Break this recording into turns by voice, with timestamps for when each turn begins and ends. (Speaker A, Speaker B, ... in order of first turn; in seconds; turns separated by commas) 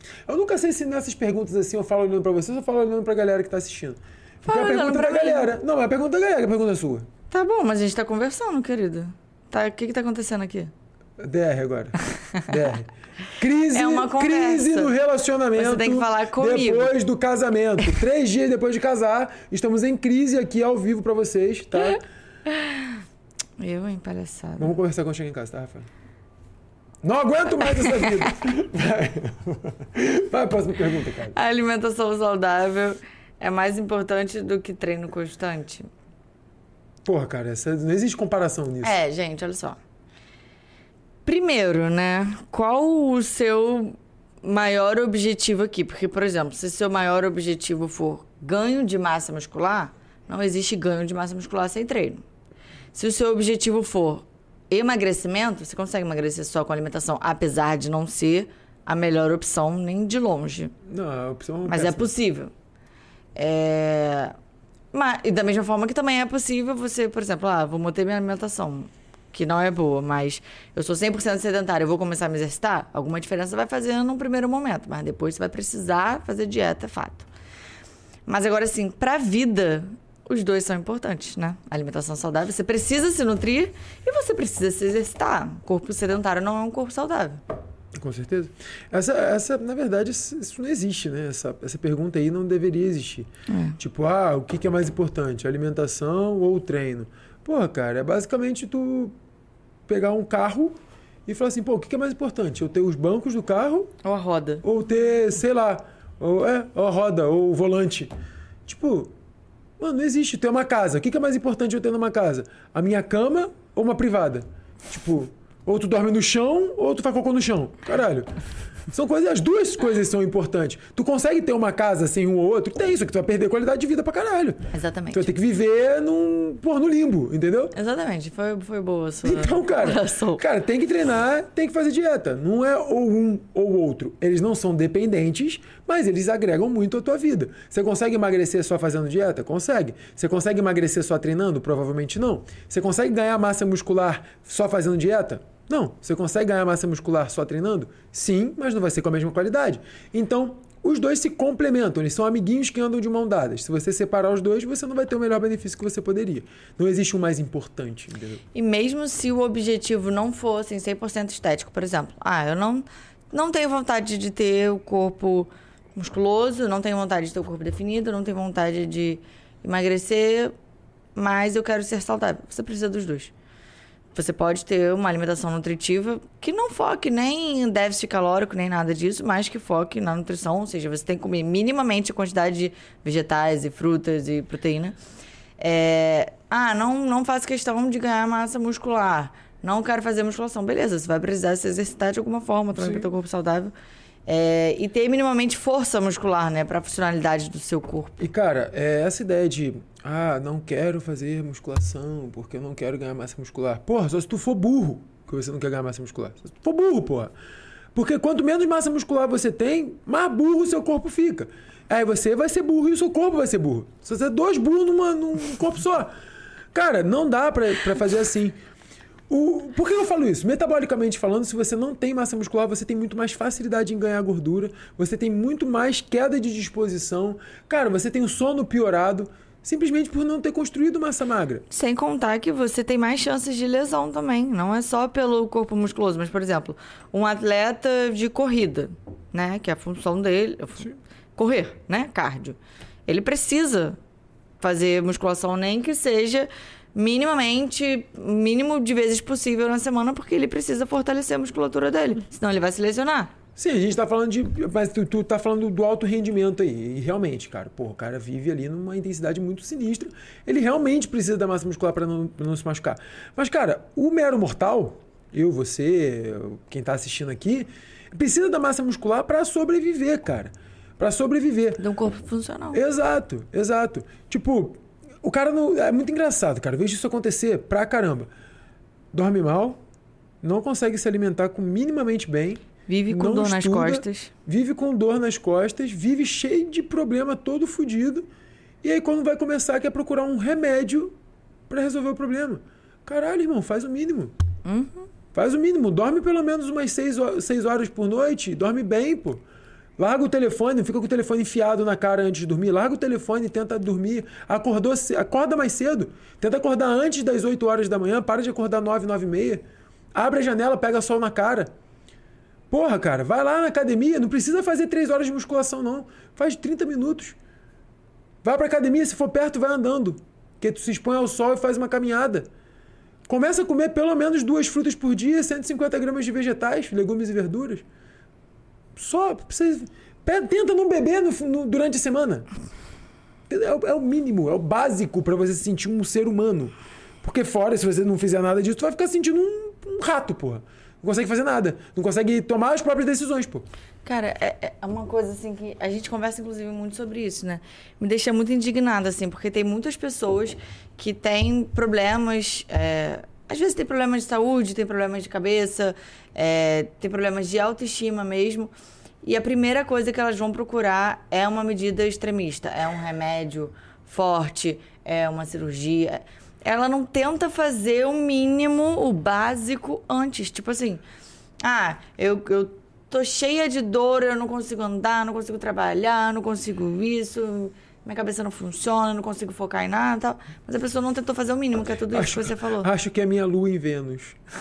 Speaker A: 0.3-7.1, Speaker B: 4.4-5.5, Speaker B: 7.3-10.7, Speaker A: 11.2-22.0, Speaker B: 13.7-14.9, Speaker B: 15.6-16.9, Speaker B: 22.4-23.0, Speaker B: 23.6-24.7, Speaker A: 24.6-25.9, Speaker A: 27.0-31.4, Speaker B: 27.8-28.1, Speaker B: 31.3-35.9, Speaker A: 37.0-39.0, Speaker B: 38.8-39.8, Speaker B: 41.2-52.2, Speaker B: 52.9-60.7, Speaker A: 60.8-62.1, Speaker B: 61.7-62.5, Speaker B: 63.3-64.3, Speaker B: 64.9-77.3, Speaker B: 78.2-87.4, Speaker A: 88.0-99.1, Speaker B: 93.5-93.8, Speaker A: 99.9-100.7, Speaker A: 101.3-103.9, Speaker B: 104.0-104.6, Speaker A: 104.6-108.1, Speaker A: 108.7-109.1, Speaker A: 109.8-118.3, Speaker A: 118.9-127.7, Speaker B: 124.7-125.3, Speaker B: 127.7-130.4, Speaker A: 129.2-158.4, Speaker B: 158.5-170.5, Speaker B: 171.2-173.3, Speaker B: 174.1-185.0, Speaker B: 185.6-193.7, Speaker A: 192.7-193.1, Speaker B: 194.2-198.2, Speaker A: 198.2-207.3, Speaker A: 207.9-216.1, Speaker A: 216.7-218.6, Speaker A: 219.3-231.6, Speaker B: 231.7-244.0, Speaker B: 244.6-253.3, Speaker A: 253.6-271.8, Speaker B: 271.8-272.8, Speaker A: 272.7-278.3, Speaker A: 279.1-279.8, Speaker A: 280.4-288.3, Speaker B: 282.9-284.3, Speaker A: 288.8-291.1, Speaker A: 291.7-294.3, Speaker B: 294.6-295.1, Speaker A: 295.3-299.4, Speaker A: 300.0-309.6, Speaker A: 310.1-311.7, Speaker A: 312.7-317.4, Speaker A: 318.4-322.5, Speaker A: 323.3-327.8, Speaker A: 328.9-332.4, Speaker A: 333.5-343.6, Speaker B: 344.0-358.7, Speaker B: 359.2-371.0, Speaker B: 371.6-382.9, Speaker A: 382.1-384.4